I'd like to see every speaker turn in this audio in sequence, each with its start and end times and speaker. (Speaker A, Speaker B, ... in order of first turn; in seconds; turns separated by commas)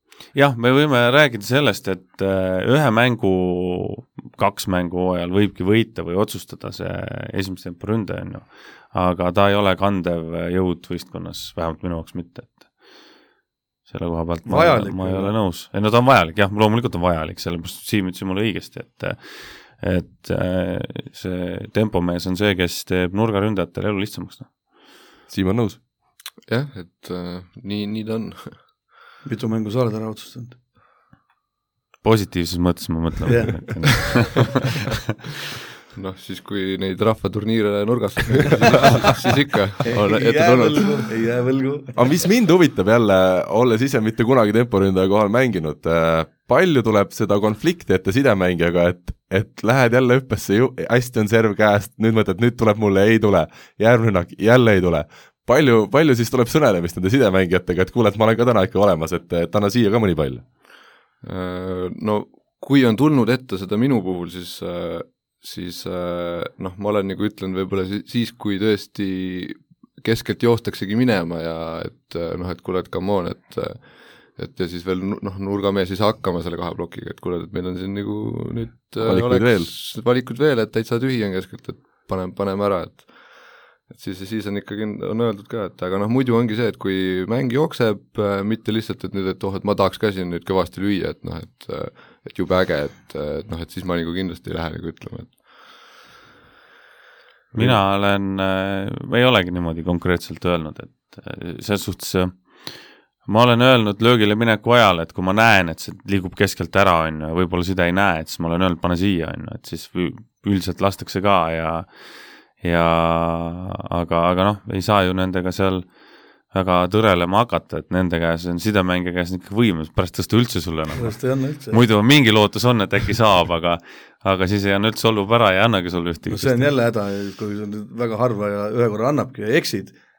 Speaker A: 0.3-12.9, Speaker A: 13.9-24.5, Speaker B: 14.4-15.3, Speaker C: 25.3-25.8, Speaker D: 26.4-28.6, Speaker B: 29.2-30.6, Speaker A: 32.0-34.2, Speaker B: 33.3-34.3, Speaker D: 35.9-41.1, Speaker B: 39.9-41.9, Speaker C: 41.9-60.4, Speaker D: 61.2-95.6, Speaker C: 79.0-79.7, Speaker A: 97.5-116.0, Speaker A: 116.5-126.7, Speaker B: 121.0-121.8, Speaker B: 126.3-130.0